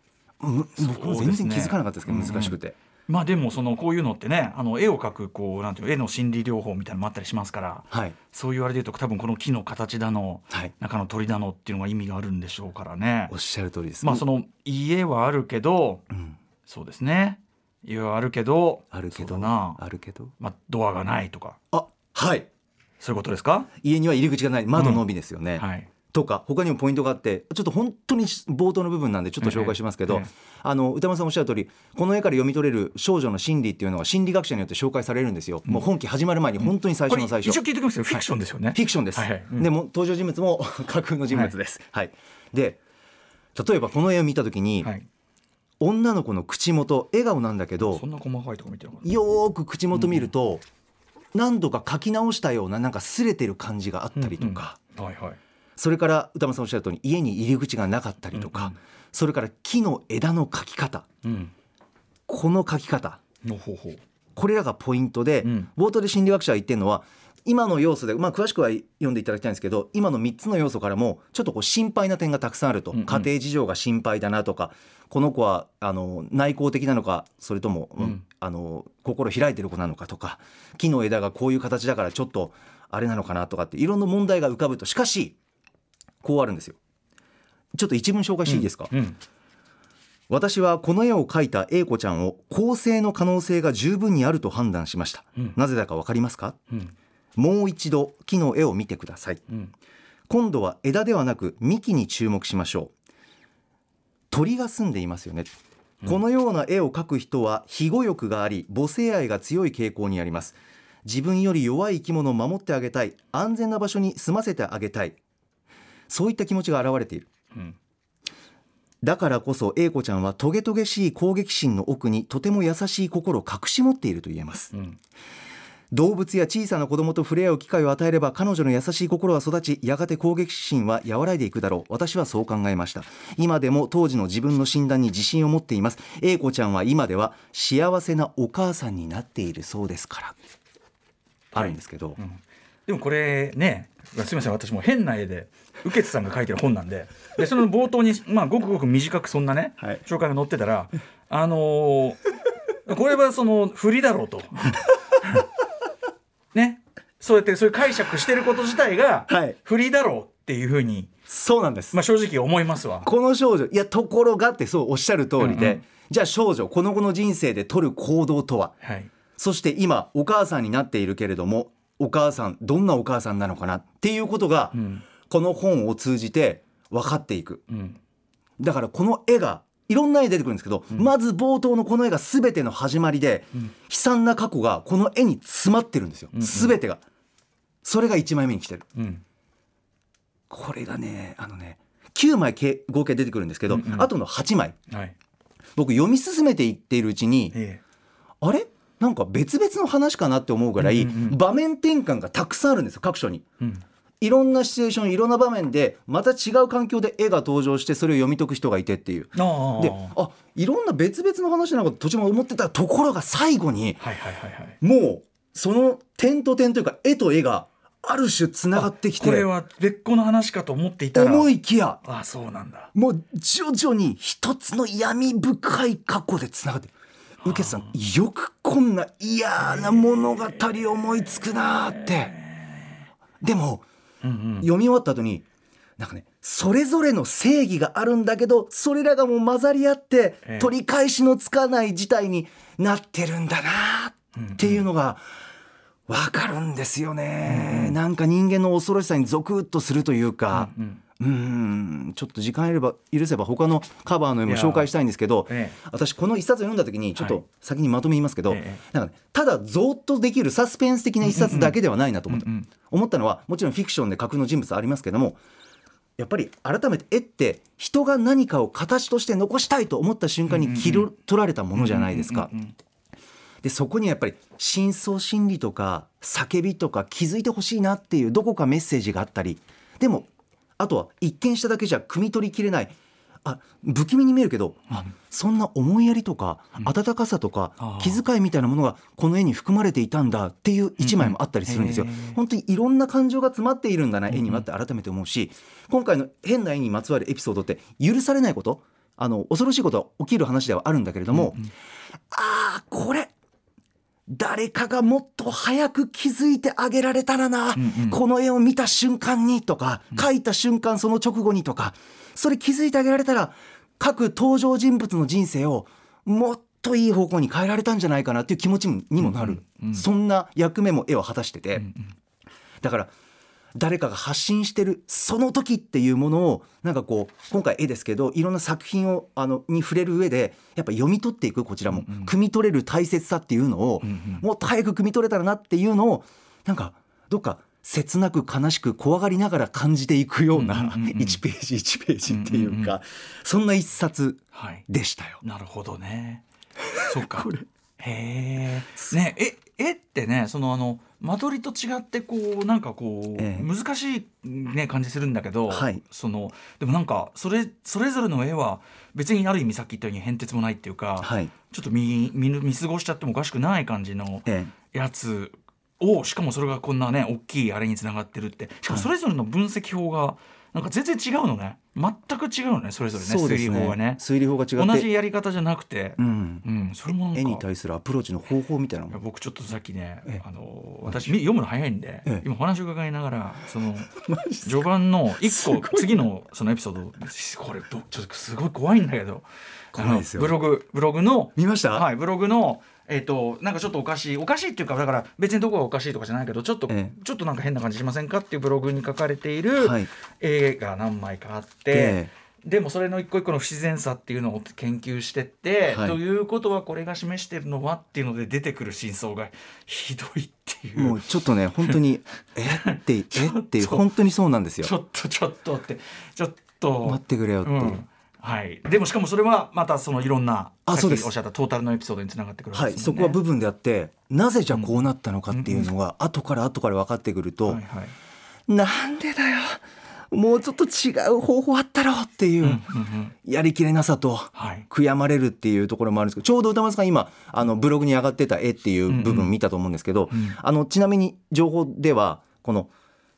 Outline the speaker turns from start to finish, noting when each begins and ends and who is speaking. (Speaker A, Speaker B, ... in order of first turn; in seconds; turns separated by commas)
Speaker A: 0.4-2.8, Speaker B: 0.8-13.3, Speaker A: 7.9-8.2, Speaker A: 13.3-14.2, Speaker B: 14.0-16.0, Speaker A: 16.1-16.4, Speaker B: 16.7-19.8, Speaker A: 18.9-20.3, Speaker B: 20.4-21.6, Speaker A: 21.7-22.5, Speaker B: 23.0-23.7, Speaker A: 23.8-38.2, Speaker B: 24.8-25.0, Speaker B: 25.6-25.9, Speaker B: 29.4-30.3, Speaker B: 36.6-39.7, Speaker A: 38.7-42.8, Speaker A: 43.5-44.9, Speaker A: 45.8-48.0, Speaker B: 47.8-49.1, Speaker A: 49.0-50.6, Speaker B: 49.9-50.3, Speaker A: 51.3-54.8, Speaker B: 54.2-55.4, Speaker A: 55.8-61.1, Speaker B: 58.3-58.8, Speaker B: 61.2-61.5, Speaker A: 62.3-63.2, Speaker B: 63.4-64.0, Speaker A: 64.4-85.4, Speaker B: 65.4-65.7, Speaker B: 72.9-73.3, Speaker A: 86.2-86.8, Speaker A: 87.8-88.9, Speaker B: 88.5-89.2, Speaker A: 90.3-96.6, Speaker A: 97.4-99.4, Speaker A: 100.3-102.9, Speaker A: 104.3-105.5, Speaker A: 106.0-115.2, Speaker A: 116.1-117.3, Speaker A: 119.0-124.7, Speaker B: 124.7-125.0, Speaker A: 125.9-140.4, Speaker A: 141.5-142.2, Speaker B: 141.6-152.2, Speaker B: 152.8-155.4, Speaker B: 156.5-161.1, Speaker A: 159.3-159.6, Speaker A: 161.3-162.0, Speaker B: 161.9-163.1, Speaker A: 163.0-168.8, Speaker B: 165.4-165.8, Speaker B: 168.8-169.1, Speaker A: 169.4-177.6, Speaker B: 174.7-175.1, Speaker B: 177.7-178.0, Speaker A: 178.6-187.0, Speaker B: 186.3-186.8, Speaker A: 187.8-188.9, Speaker B: 189.0-189.2, Speaker A: 190.5-194.8, Speaker B: 193.7-194.1, Speaker B: 194.9-195.2, Speaker A: 195.8-197.6, Speaker B: 197.5-197.8, Speaker A: 198.4-203.4, Speaker B: 200.8-201.4, Speaker A: 204.2-214.0, Speaker B: 209.4-210.1, Speaker B: 214.0-214.8, Speaker A: 214.8-219.5, Speaker B: 218.7-221.5, Speaker A: 221.1-222.0, Speaker B: 222.0-222.9, Speaker A: 222.9-232.3, Speaker B: 227.4-227.9, Speaker B: 229.6-232.9, Speaker A: 233.4-233.8, Speaker B: 234.2-234.7, Speaker A: 234.6-235.4, Speaker A: 236.0-245.2, Speaker B: 244.4-244.8, Speaker A: 246.1-265.4, Speaker B: 247.5-248.0, Speaker B: 250.5-251.0, Speaker B: 254.5-254.9, Speaker B: 255.5-255.8, Speaker B: 258.5-258.8, Speaker B: 261.2-261.8, Speaker B: 262.3-262.7, Speaker A: 266.2-272.5, Speaker B: 270.5-271.1, Speaker B: 271.8-272.7, Speaker A: 273.6-301.6, Speaker B: 287.8-288.2, Speaker B: 291.0-292.4, Speaker B: 294.3-294.6, Speaker B: 301.3-301.7, Speaker A: 302.3-303.3, Speaker A: 304.3-321.9, Speaker B: 307.8-308.2, Speaker B: 319.2-320.1, Speaker B: 321.8-322.1, Speaker A: 322.8-323.1, Speaker A: 323.8-345.4, Speaker B: 331.9-332.3, Speaker B: 334.0-334.4, Speaker B: 340.5-341.4, Speaker B: 342.3-342.9, Speaker B: 344.5-344.9, Speaker B: 345.4-346.4, Speaker A: 346.9-347.7, Speaker B: 347.0-374.2, Speaker A: 353.4-353.7, Speaker A: 355.7-356.0, Speaker A: 361.2-361.5, Speaker A: 364.5-364.7, Speaker A: 373.2-375.1, Speaker B: 374.8-377.6, Speaker A: 376.2-376.6, Speaker A: 377.3-379.2, Speaker B: 379.1-411.2, Speaker A: 384.1-384.9, Speaker A: 385.4-386.3, Speaker A: 389.9-390.6, Speaker A: 391.6-392.1, Speaker A: 399.8-400.1, Speaker A: 401.9-402.3, Speaker A: 405.9-406.2, Speaker A: 411.0-414.9, Speaker B: 412.7-414.1, Speaker B: 414.8-423.4, Speaker A: 417.0-418.0, Speaker A: 420.9-421.3, Speaker A: 422.7-427.8, Speaker B: 424.7-425.9, Speaker B: 427.7-428.1, Speaker A: 428.7-432.8, Speaker B: 432.6-433.3, Speaker A: 433.4-442.9, Speaker B: 434.6-434.9, Speaker B: 439.1-439.5, Speaker B: 440.3-440.6